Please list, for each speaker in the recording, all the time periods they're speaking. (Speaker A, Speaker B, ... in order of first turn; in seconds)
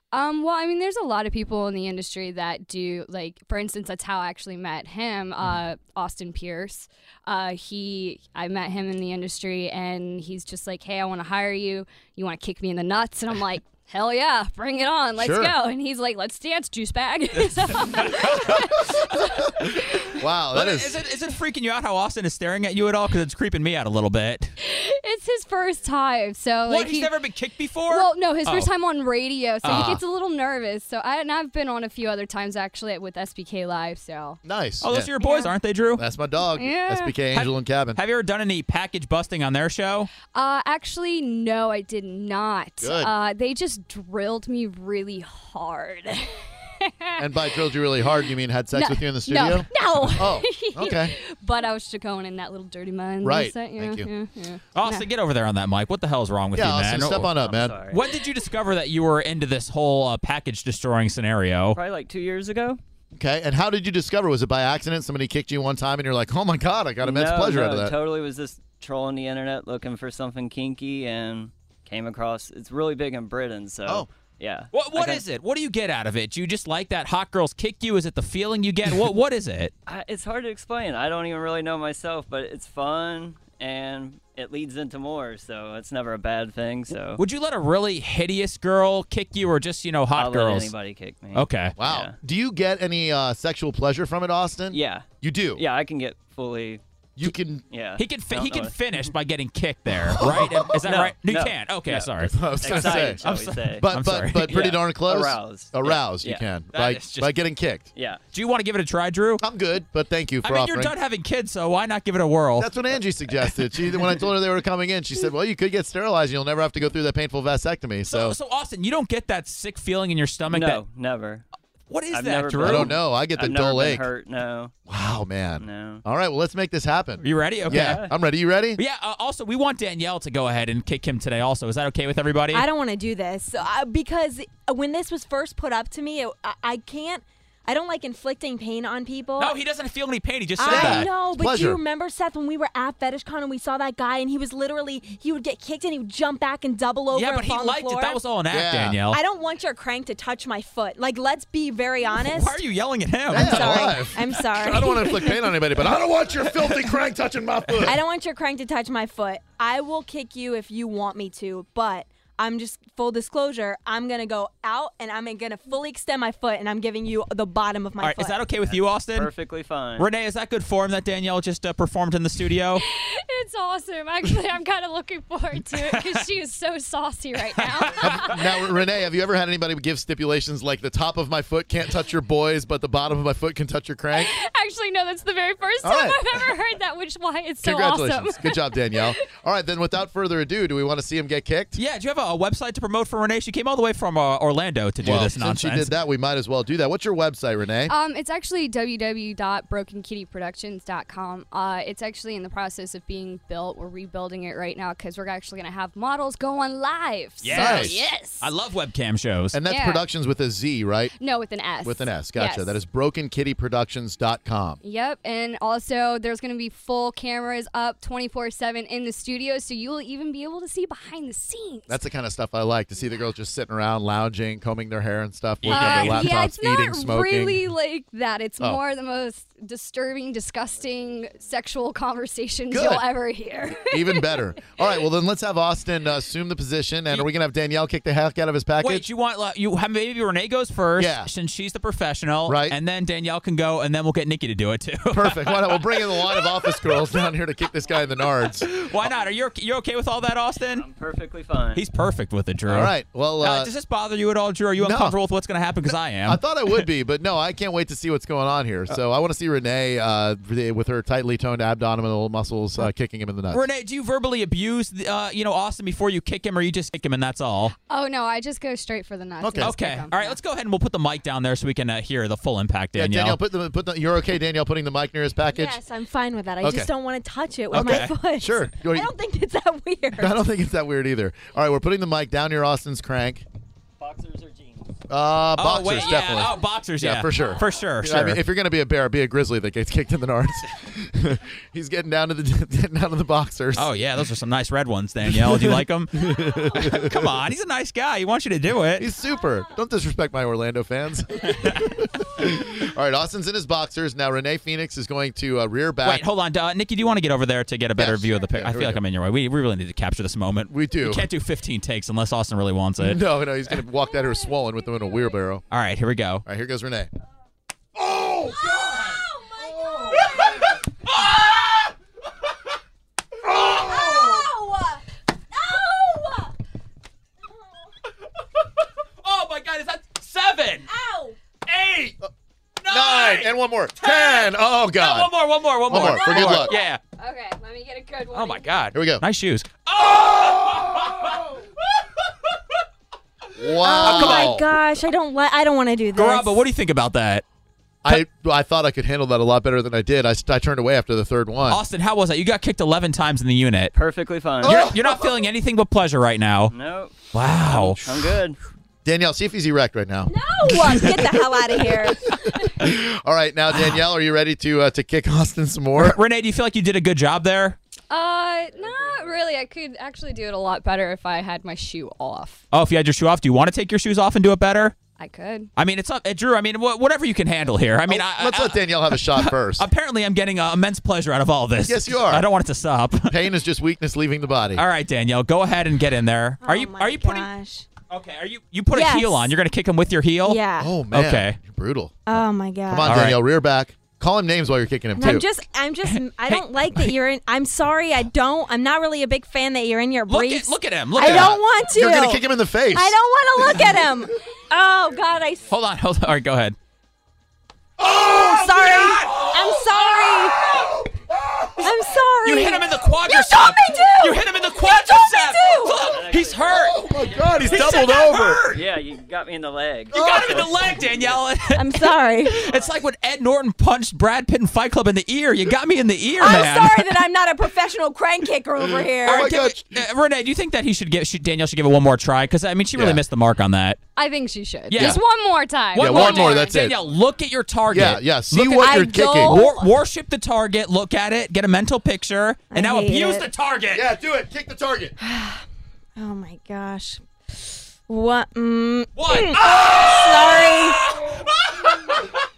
Speaker A: 0.1-19.4, 24.6-27.1, 27.9-34.4, 35.1-35.6, 36.5-37.1, 40.2-46.4, 48.7-55.1, 172.8-178.3, 184.2-189.2, 197.9-208.6, 209.7-210.1, 211.2-212.8, 214.8-222.0, 225.7-234.5, 267.8-270.4, 336.2-338.9, 368.1-372.6, 375.2-375.7, 434.2-436.6
Speaker B: 15.2-15.6, 19.6-21.0, 29.7-30.1, 34.4-35.1, 36.0-38.0, 42.8-43.1, 47.2-51.1, 53.2-54.1, 56.5-57.9, 63.1-68.0, 91.8-95.6, 97.2-97.7, 100.0-100.8, 102.3-107.9, 109.4-110.9, 112.6-118.4, 122.6-124.1, 124.9-128.8, 140.7-141.8, 148.5-149.0, 153.3-158.0, 178.0-184.3, 185.8-186.3, 187.6-191.8, 195.0-197.9, 207.5-208.0, 209.5-211.1, 211.7-214.8, 221.9-227.7, 232.7-233.1, 233.9-239.1, 241.0-241.3, 242.5-242.8, 245.1-248.7, 252.7-253.7, 254.8-255.2, 256.2-263.6, 269.4-269.8, 272.9-275.8, 276.6-276.9, 277.7-279.1, 280.1-283.4, 285.1-293.9, 295.3-297.1, 299.0-306.2, 308.0-309.0, 310.7-311.3, 313.0-315.6, 316.5-317.1, 318.0-319.0, 319.7-320.1, 332.9-335.3, 335.9-336.8, 338.9-339.2, 343.6-344.7, 348.0-351.8, 354.6-355.1, 359.1-360.4, 362.6-366.2, 378.1-379.9, 381.8-382.5, 383.3-384.9, 390.8-395.5, 401.2-403.2, 416.7-418.7, 420.1-420.5, 429.2-430.0, 432.9-433.2, 435.0-435.2, 435.9-437.0, 437.9-439.6, 443.9-445.1
Speaker C: 20.5-24.5, 26.7-28.7, 29.6-30.0, 34.8-36.0, 37.3-40.1, 54.7-57.3, 57.9-61.8, 74.7-79.7, 87.2-90.7, 91.3-91.7, 98.0-104.6, 106.7-107.4, 108.3-109.4, 110.4-112.7, 118.1-120.8, 121.9-122.9, 127.2-128.0, 128.8-132.7, 139.4-141.1, 147.1-149.2, 152.1-153.8, 156.7-156.9, 168.0-169.3, 170.0-172.8, 175.8-176.2, 177.6-177.9, 191.8-195.9, 207.4-209.6, 225.6-226.3, 238.8-245.8, 248.6-250.8, 251.8-256.4, 263.5-267.7, 269.6-273.4, 277.7-278.1, 285.6-288.4, 293.8-299.1, 306.0-313.8, 315.7-316.4, 321.0-321.9, 329.2-330.9, 331.7-332.1, 332.8-333.5, 334.0-337.0, 338.3-341.4, 344.0-344.6, 346.1-347.4, 351.7-353.9, 354.6-356.7, 357.3-358.3, 363.7-364.0, 366.0-367.8, 372.7-375.0, 375.8-383.4, 384.8-387.5, 388.1-391.6, 393.0-393.4, 396.1-397.1, 400.3-401.6, 405.7-406.8, 408.3-410.8, 412.4-417.0, 417.6-418.9, 420.1-427.2, 429.3-434.0, 434.9-435.2, 435.9-444.1, 449.2-452.2
Speaker D: 57.4-58.0, 61.7-62.8, 67.0-75.3, 79.9-87.2, 90.1-92.2, 94.7-95.0, 95.6-96.8, 97.7-99.1, 100.7-106.5, 108.0-108.2, 120.5-121.5, 122.1-124.7, 125.6-126.0, 127.6-128.1, 168.6-170.1, 250.7-251.8, 284.0-284.9, 353.9-354.9, 356.7-358.6, 368.7-369.5, 416.0-416.9, 418.7-421.5, 422.6-423.0
Speaker E: 132.5-139.6, 140.6-148.2, 149.1-152.6, 153.3-155.4, 157.8-168.5, 275.5-280.4, 318.7-320.8, 323.5-325.0, 325.5-326.5, 330.9-331.4, 343.8-346.6, 360.3-362.3, 386.6-387.9, 388.9-389.5, 390.4-390.9, 392.3-393.2, 395.2-405.7, 408.1-410.6, 411.8-416.0, 421.7-422.6, 426.4-429.5, 438.8-440.0, 442.7-443.5, 445.2-445.6, 446.2-447.2, 448.1-451.1